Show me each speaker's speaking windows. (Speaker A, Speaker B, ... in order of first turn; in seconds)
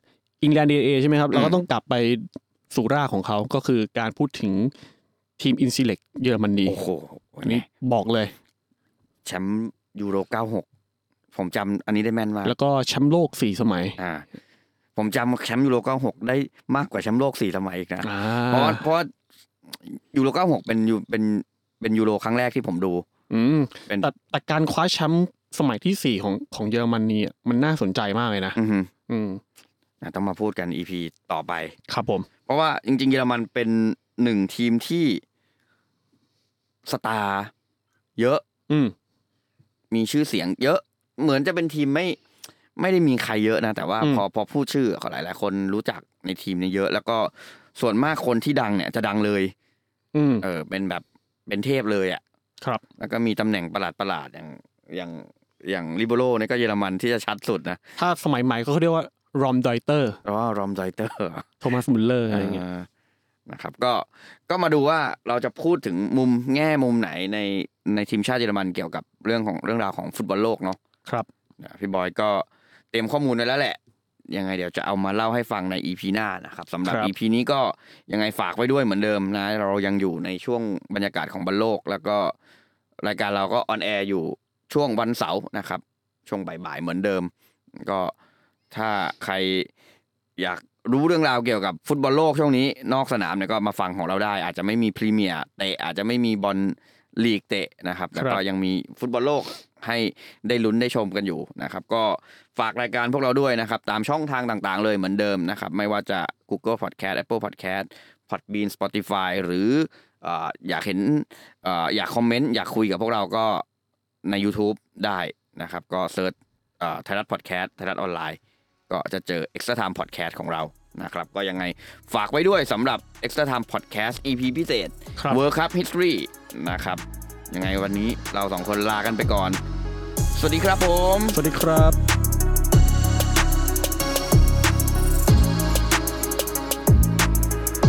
Speaker A: 0.4-4.7, 5.4-6.8, 7.4-8.3, 12.4-14.0, 18.0-18.9, 23.3-29.4, 31.9-32.3, 38.7-38.9, 50.1-50.5, 58.0-60.2, 61.6-62.6, 76.8-77.1, 98.2-98.4, 131.3-132.0
Speaker B: 1.3-1.6, 6.7-7.7, 9.2-10.7, 11.3-12.5, 14.0-14.3, 15.0-19.1, 19.7-23.1, 28.6-28.9, 30.0-31.8, 32.5-35.2, 36.9-37.5, 38.2-38.4, 39.9-42.2, 42.8-49.5, 50.4-52.2, 53.0-57.8, 60.2-61.5, 62.3-62.9, 63.5-70.8, 71.6-73.8, 74.3-82.3, 83.0-88.1, 88.7-89.7, 90.4-113.7, 114.2-129.6, 130.3-131.4